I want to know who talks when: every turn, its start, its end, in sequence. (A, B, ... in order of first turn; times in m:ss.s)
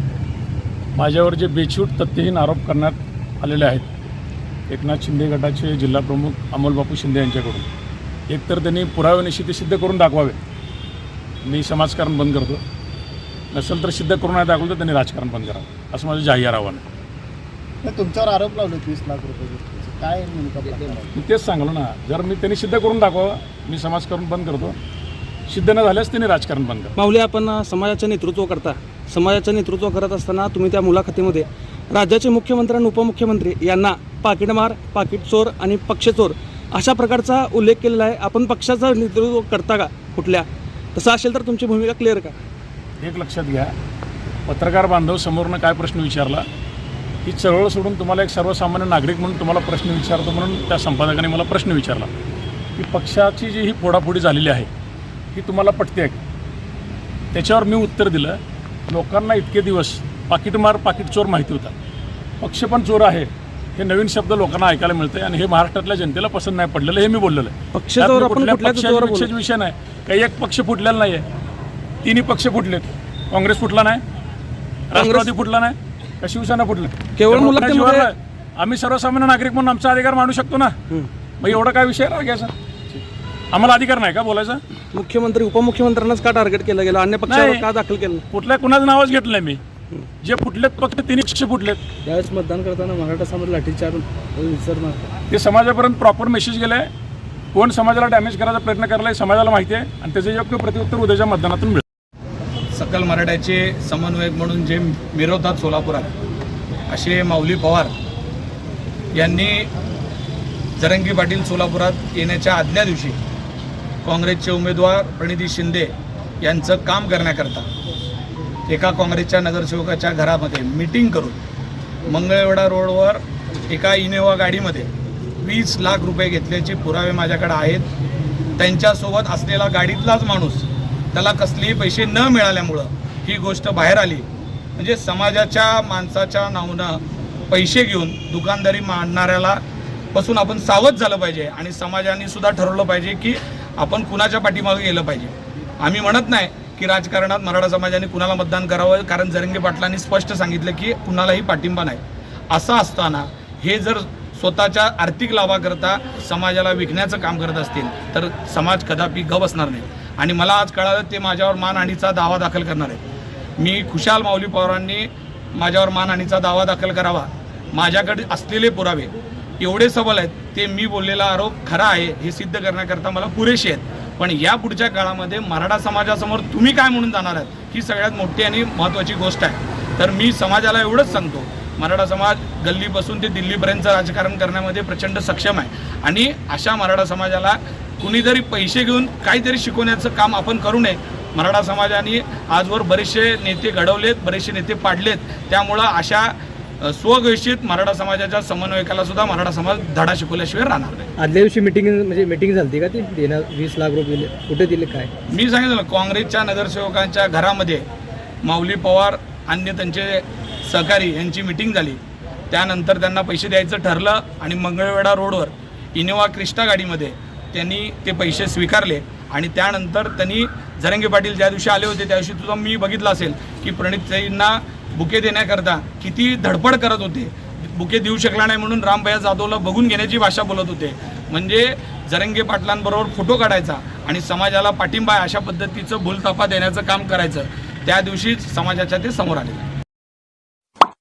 0:01.0-0:03.9 A
0:04.7-0:07.7 A
0:08.3-0:10.4 A
0:11.4-0:12.6 A
0:13.5-0:16.8 A
0:17.8-0:21.2 B
0:20.7-0:20.9 C
0:21.1-0:24.8 A
0:25.5-0:26.9 A
0:27.0-0:42.4 D
0:43.0-0:43.7 A
0:44.5-0:46.4 A
0:47.2-0:52.1 A
0:52.8-0:54.7 A
0:55.3-0:56.2 A
0:57.3-0:58.4 A
0:58.9-1:01.7 A
1:02.4-1:11.2 A
1:07.7-1:09.3 D
1:12.0-1:14.0 A
1:14.9-1:20.7 A
1:14.9-1:15.4 D
1:17.2-1:18.1 D
1:21.4-1:22.5 A
1:23.5-1:24.6 A
1:24.9-1:28.2 D
1:27.3-1:27.6 A
1:28.3-1:29.6 A
1:30.2-1:31.8 A
1:32.0-1:35.1 D
1:35.3-1:36.9 A
1:37.5-1:41.8 A
1:42.8-1:46.1 E
1:46.9-1:47.9 E
1:49.2-1:49.6 E
1:50.8-1:53.2 E
1:54.0-1:55.9 E
1:56.4-1:57.7 E
1:58.7-2:01.4 E
2:02.0-2:07.9 E
2:08.6-2:14.2 E
2:14.8-2:19.6 E
2:20.1-2:43.0 E
2:43.6-3:21.1 E
3:21.2-3:25.1 C
3:25.3-3:27.8 E
3:28.4-3:32.0 E
3:32.5-3:59.6 E